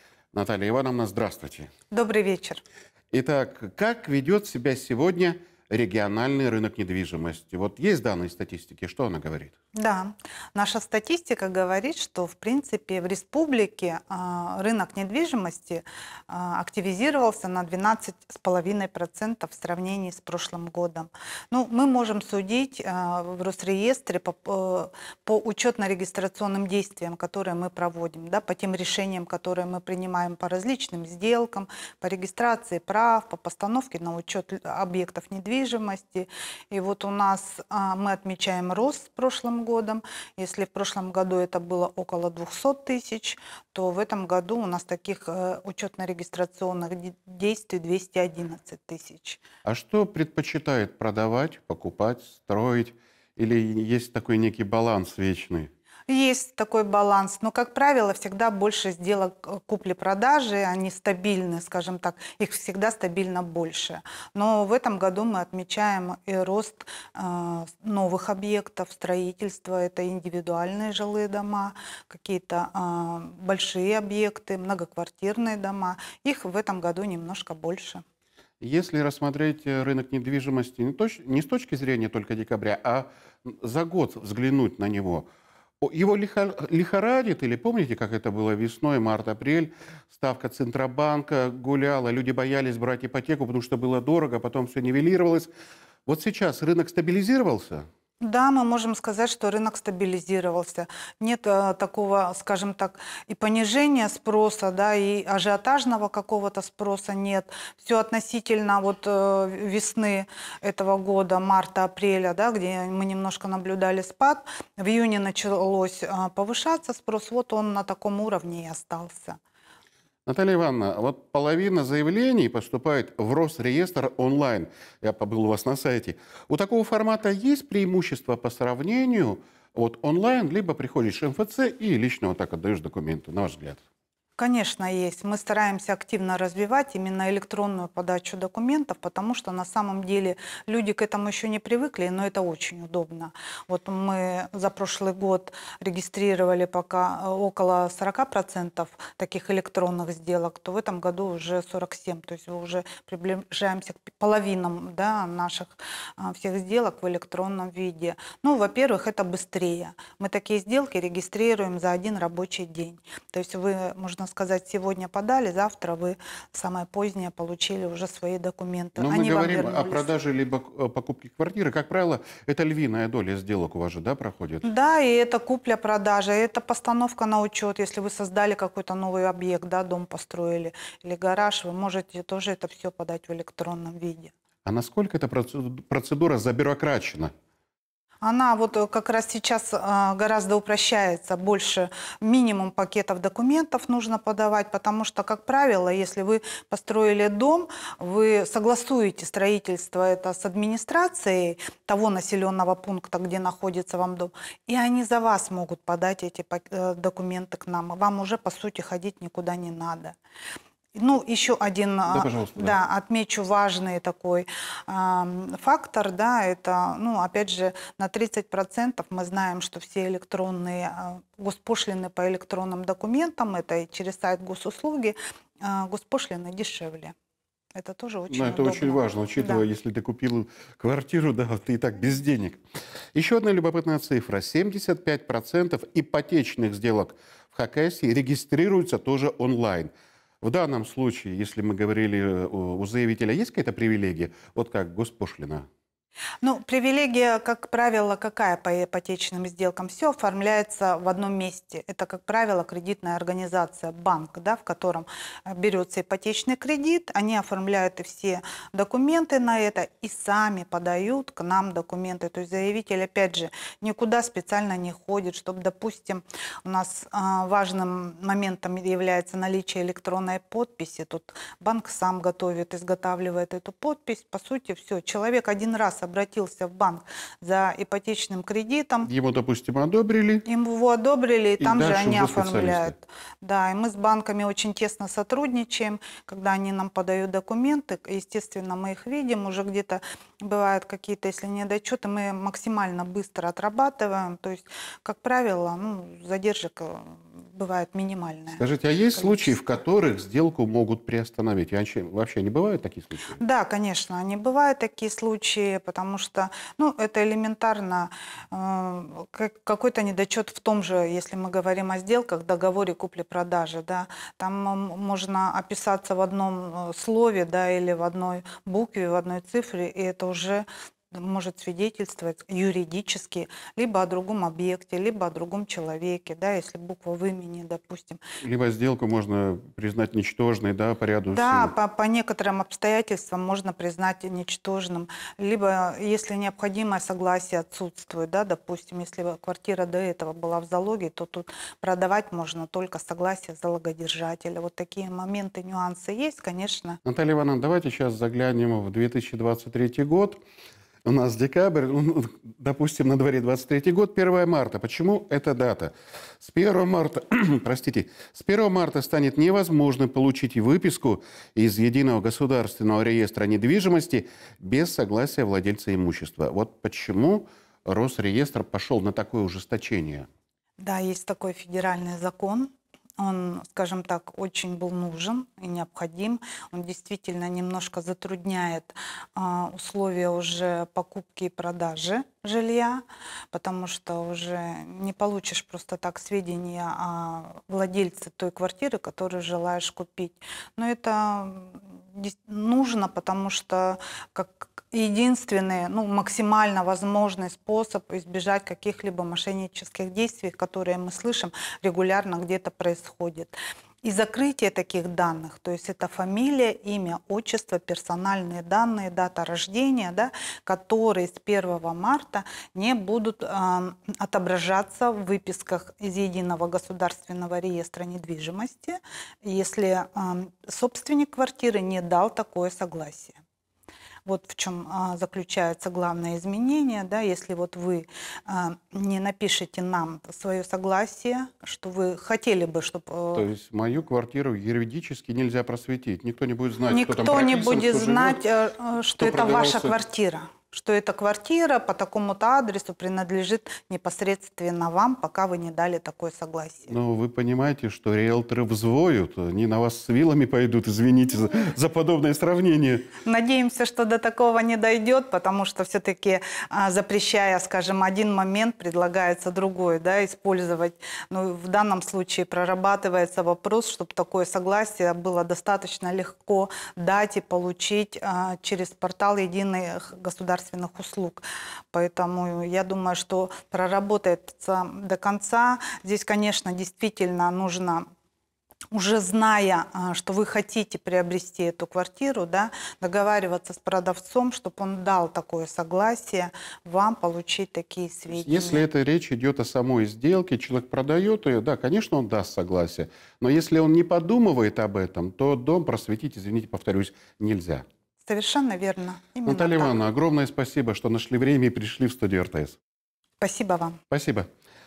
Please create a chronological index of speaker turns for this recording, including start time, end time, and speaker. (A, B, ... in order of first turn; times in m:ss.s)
0:00.3-0:01.7 A
0:01.9-0:02.6 B
0:03.1-0:09.5 A
0:09.7-0:49.4 B
0:49.6-0:55.7 A
0:56.1-1:18.0 B
1:18.6-1:25.3 A
1:25.8-1:35.5 A
1:36.0-1:37.8 A
1:38.2-1:59.4 B
2:00.2-2:13.8 A
2:14.4-2:50.1 B
2:49.0-2:54.6 A
2:54.6-3:04.3 B
3:04.6-3:07.3 A
3:08.2-3:30.2 B
3:31.0-3:47.1 B
3:32.1-3:32.8 A
3:47.7-3:49.6 B
3:48.3-3:52.6 A
3:53.1-3:59.9 A
4:00.4-4:05.6 A
4:06.4-4:39.1 B
4:39.0-4:40.4 A
4:40.4-4:58.6 B
4:41.6-4:42.9 A
4:58.6-5:03.4 A
4:59.2-4:59.5 B
5:03.4-5:28.2 B
5:28.4-5:31.7 A
5:31.3-5:47.0 B
5:47.0-5:50.4 A
5:51.0-6:10.3 A
6:10.8-7:03.4 B
7:04.2-7:13.4 B
7:13.3-7:18.4 A
7:16.9-7:26.9 B
7:19.2-7:20.0 A
7:26.9-7:33.1 A
7:33.2-7:58.0 B
7:58.9-8:08.8 B
8:08.3-8:17.8 A
8:18.2-8:20.0 B
8:19.4-8:22.8 A
8:23.4-8:24.0 B
8:24.1-8:24.5 A